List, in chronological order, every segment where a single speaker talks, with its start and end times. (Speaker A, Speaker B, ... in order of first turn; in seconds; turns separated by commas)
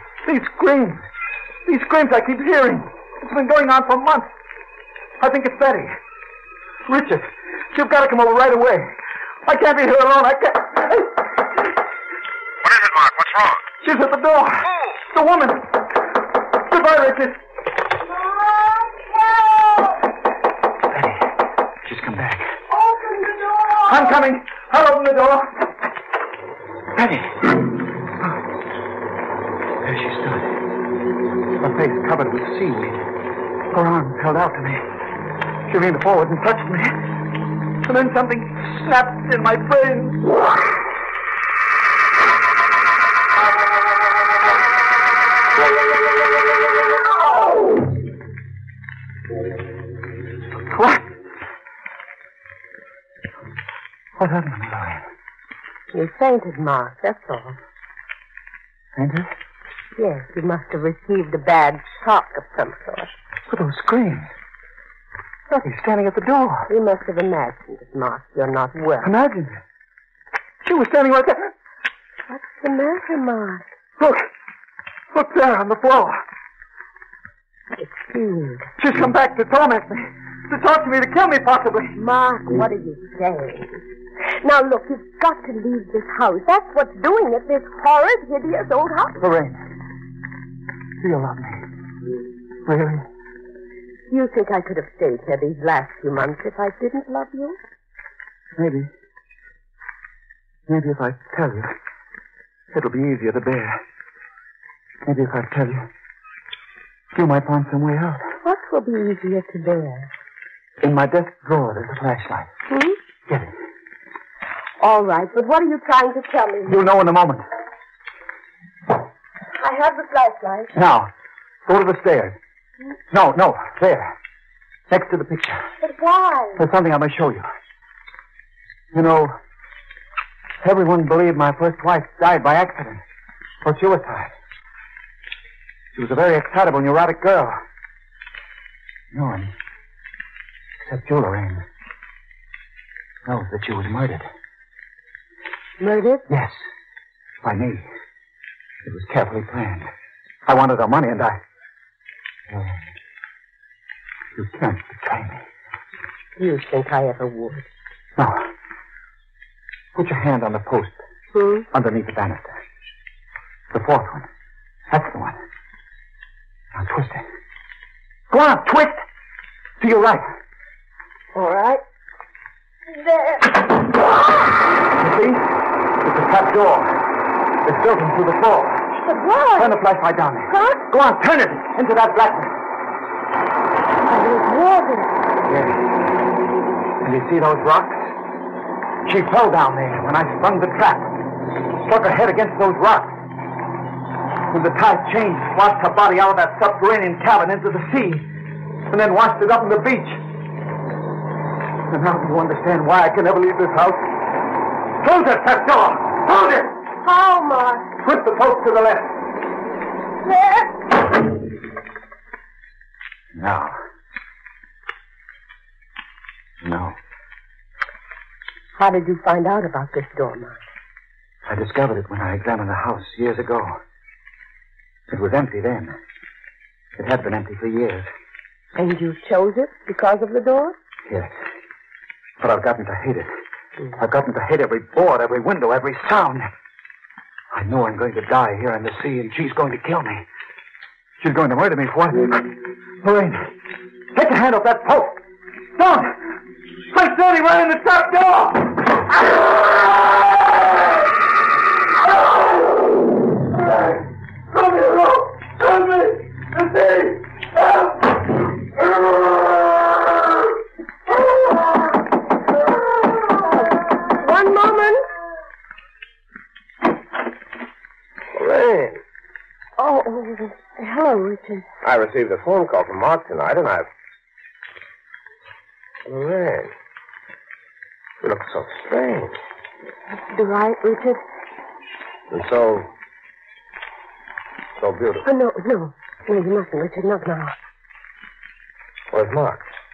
Speaker A: 0.2-1.0, Speaker A: 1.6-4.3, Speaker A: 5.2-5.9, Speaker A: 6.9-11.3, Speaker B: 12.6-13.6, Speaker A: 13.8-15.7, Speaker A: 16.6-17.4, Speaker A: 20.9-21.3, Speaker A: 21.8-22.5, Speaker A: 23.7-25.6, Speaker A: 26.9-28.4, Speaker A: 29.8-30.6, Speaker A: 31.6-33.1, Speaker A: 33.7-34.8, Speaker A: 35.7-37.0, Speaker A: 37.8-40.2, Speaker A: 50.7-51.1, Speaker A: 54.2-55.0, Speaker C: 55.9-57.6, Speaker A: 59.0-59.3, Speaker C: 60.0-63.1, Speaker A: 63.5-64.3, Speaker A: 65.5-66.7, Speaker C: 66.7-69.1, Speaker A: 69.0-69.6, Speaker A: 70.6-71.5, Speaker C: 72.3-73.6, Speaker A: 74.0-74.2, Speaker A: 75.1-76.2, Speaker C: 77.8-78.7, Speaker A: 78.8-82.0, Speaker C: 82.0-83.8, Speaker C: 84.4-89.2, Speaker A: 89.2-89.6, Speaker A: 91.0-91.6, Speaker A: 92.6-93.0, Speaker C: 94.1-97.6, Speaker A: 98.5-98.9, Speaker A: 100.7-101.7, Speaker A: 102.7-103.8, Speaker A: 105.0-105.9, Speaker A: 107.1-108.3, Speaker C: 108.4-110.1, Speaker A: 110.8-112.5, Speaker C: 112.7-113.0, Speaker C: 114.8-116.8, Speaker A: 116.7-117.4, Speaker C: 119.5-120.7, Speaker A: 120.7-121.1, Speaker A: 121.7-122.4, Speaker A: 123.1-124.1, Speaker A: 124.9-125.6, Speaker C: 125.8-126.6, Speaker A: 126.6-127.5, Speaker A: 128.9-129.3, Speaker A: 130.6-133.0, Speaker A: 133.6-134.3, Speaker A: 135.9-137.6, Speaker A: 139.1-139.5, Speaker A: 140.8-141.6, Speaker A: 143.2-144.3, Speaker C: 145.8-146.3, Speaker A: 146.3-146.6, Speaker A: 147.4-147.9, Speaker A: 148.8-149.9, Speaker A: 150.4-151.4, Speaker A: 152.5-152.8, Speaker A: 154.3-155.4, Speaker C: 156.4-157.7, Speaker A: 158.2-158.5, Speaker A: 159.9-161.0, Speaker C: 161.3-161.7, Speaker A: 161.7-162.6, Speaker A: 163.7-164.3, Speaker A: 164.9-165.4, Speaker A: 166.7-167.2, Speaker A: 168.3-169.0, Speaker A: 169.8-170.3, Speaker C: 171.3-171.8, Speaker C: 172.9-173.5, Speaker A: 175.0-175.5, Speaker A: 176.0-176.9, Speaker A: 177.6-178.9, Speaker C: 179.0-179.8, Speaker A: 179.6-182.6, Speaker C: 180.5-180.8, Speaker C: 184.1-185.1, Speaker A: 185.4-185.8, Speaker A: 187.0-188.1, Speaker A: 189.0-191.1, Speaker A: 191.8-193.1, Speaker A: 194.5-198.2, Speaker A: 198.9-200.2, Speaker A: 201.9-204.1, Speaker A: 205.0-206.7, Speaker C: 207.0-207.9, Speaker A: 208.0-209.1, Speaker C: 210.2-210.7, Speaker A: 213.3-213.8, Speaker A: 216.6-217.0, Speaker C: 218.8-220.6, Speaker A: 221.4-223.8, Speaker A: 225.1-226.0, Speaker A: 227.0-228.1, Speaker C: 228.8-230.8, Speaker A: 232.4-233.3, Speaker A: 233.9-236.5, Speaker A: 237.5-240.2, Speaker A: 241.2-243.5, Speaker A: 244.1-245.2, Speaker A: 245.8-246.3, Speaker A: 246.9-250.7, Speaker A: 253.5-257.2, Speaker C: 263.5-265.0, Speaker B: 268.3-269.0, Speaker C: 269.8-271.6, Speaker B: 271.8-273.9, Speaker B: 276.1-276.7, Speaker B: 278.2-279.3, Speaker C: 280.3-281.2, Speaker B: 282.3-282.9, Speaker B: 284.8-285.2, Speaker C: 285.2-287.5, Speaker B: 289.1-289.6